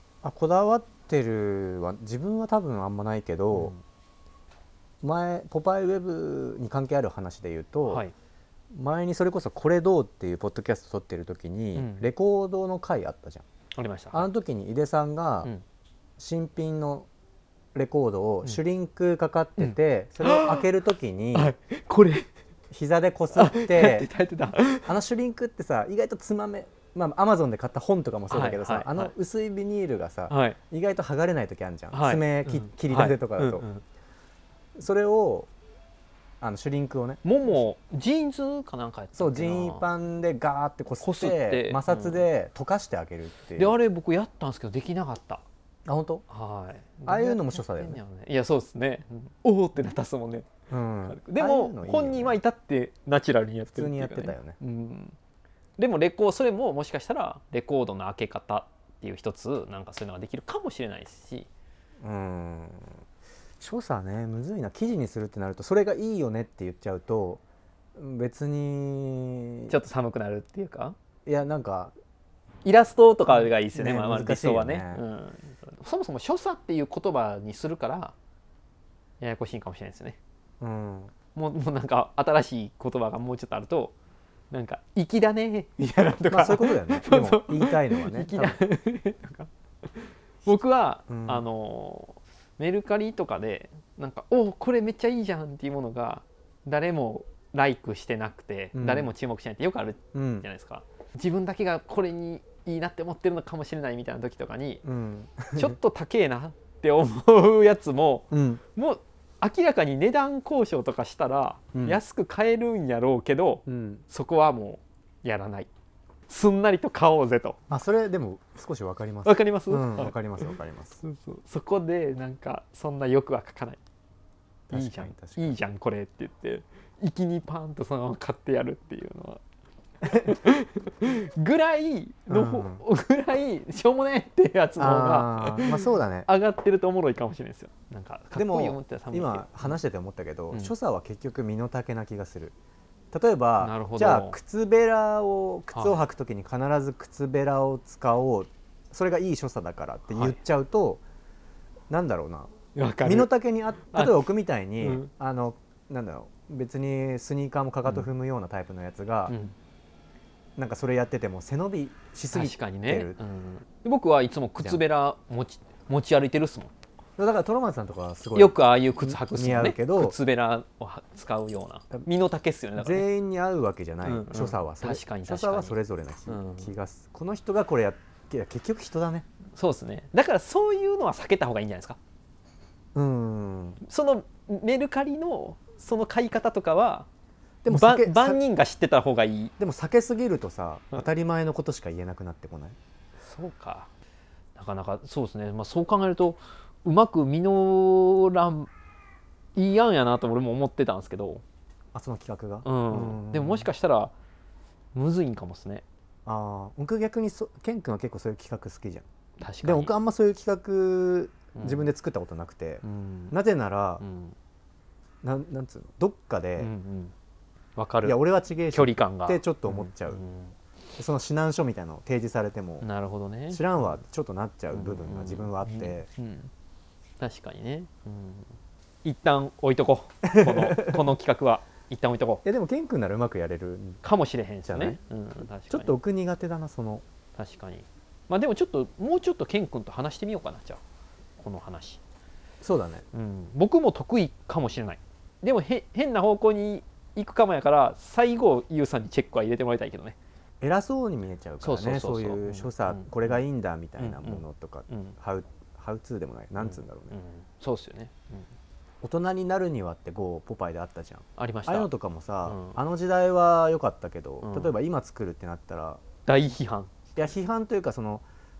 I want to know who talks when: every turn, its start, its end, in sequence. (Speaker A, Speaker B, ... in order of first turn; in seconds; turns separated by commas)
Speaker A: 0.2-3.8, Speaker B: 3.5-3.8, Speaker A: 5.0-8.0, Speaker B: 7.9-8.1, Speaker A: 8.7-13.4, Speaker B: 11.8-12.1, Speaker B: 13.8-14.3, Speaker A: 14.1-15.5, Speaker A: 16.2-17.1, Speaker A: 17.7-21.5, Speaker B: 19.6-20.7, Speaker B: 21.3-22.3, Speaker A: 22.7-24.1, Speaker B: 23.4-24.9, Speaker A: 24.9-33.7, Speaker B: 28.3-29.1, Speaker B: 30.3-30.6, Speaker B: 31.9-33.8, Speaker A: 34.8-35.5, Speaker A: 36.4-37.2, Speaker B: 37.2-39.9, Speaker A: 39.1-43.8, Speaker B: 41.0-42.3, Speaker B: 43.5-45.4, Speaker A: 45.9-46.2, Speaker B: 46.3-50.5, Speaker A: 47.1-48.0, Speaker A: 50.7-52.4, Speaker B: 51.1-55.2, Speaker A: 53.7-54.6, Speaker B: 55.8-61.5, Speaker A: 62.0-63.0, Speaker A: 63.6-67.4, Speaker A: 68.0-69.8, Speaker B: 69.7-71.0, Speaker A: 71.3-71.9, Speaker B: 72.6-78.1, Speaker A: 73.3-75.0, Speaker B: 79.2-80.2, Speaker A: 80.6-81.1, Speaker B: 81.3-83.9, Speaker B: 84.5-104.8, Speaker A: 86.3-88.6, Speaker A: 91.1-91.5, Speaker A: 98.7-99.1, Speaker A: 100.1-100.5, Speaker A: 104.8-105.8, Speaker B: 105.5-115.7, Speaker A: 108.3-108.6, Speaker A: 111.7-112.0, Speaker A: 113.7-114.0, Speaker B: 116.3-117.6, Speaker A: 117.7-121.0, Speaker B: 119.2-120.4, Speaker B: 121.0-123.8, Speaker A: 124.7-125.6, Speaker B: 124.7-129.4, Speaker A: 130.0-130.3, Speaker B: 130.1-139.7, Speaker A: 132.3-132.8, Speaker A: 134.8-136.3, Speaker A: 138.3-142.6, Speaker A: 143.1-151.0, Speaker B: 143.6-144.4, Speaker B: 145.7-146.0, Speaker B: 150.1-150.4, Speaker A: 151.9-152.5, Speaker B: 152.8-153.3, Speaker A: 153.0-159.3, Speaker B: 153.9-154.2, Speaker B: 154.8-155.1, Speaker B: 159.3-159.5, Speaker A: 160.6-163.2, Speaker B: 162.3-166.7, Speaker A: 164.6-164.8, Speaker A: 167.2-170.2, Speaker B: 168.3-173.1, Speaker A: 172.8-179.3, Speaker B: 174.0-175.8, Speaker B: 176.3-176.7, Speaker B: 179.6-182.0, Speaker A: 182.9-183.8, Speaker B: 183.8-187.1, Speaker A: 187.6-188.4, Speaker B: 187.7-189.5, Speaker A: 189.6-192.8, Speaker B: 193.2-193.9, Speaker B: 194.6-198.7, Speaker B: 199.6-201.4, Speaker A: 201.9-203.7, Speaker B: 202.6-204.1, Speaker B: 204.9-205.8, Speaker A: 206.3-209.1, Speaker B: 209.4-209.9, Speaker A: 209.6-214.0, Speaker B: 211.6-211.9, Speaker B: 212.8-213.4, Speaker B: 214.0-214.4, Speaker A: 215.2-216.7, Speaker B: 216.6-217.1, Speaker B: 217.8-218.2, Speaker A: 218.0-220.2, Speaker B: 218.7-220.6, Speaker A: 221.0-222.9, Speaker B: 222.8-224.0, Speaker A: 223.5-226.1, Speaker B: 224.7-226.5, Speaker B: 227.2-232.4, Speaker A: 230.2-231.0, Speaker A: 232.4-234.0, Speaker B: 234.0-235.9, Speaker A: 234.7-235.0, Speaker A: 235.7-237.0, Speaker B: 237.4-240.8, Speaker B: 241.4-242.0, Speaker A: 242.6-243.0, Speaker B: 243.1-250.2, Speaker A: 250.6-257.2, Speaker B: 251.6-253.4, Speaker B: 254.0-255.2, Speaker B: 256.6-258.5, Speaker A: 259.0-266.0, Speaker B: 261.4-261.9, Speaker B: 262.4-262.8, Speaker B: 264.4-264.7, Speaker B: 266.2-266.9, Speaker A: 267.2-268.2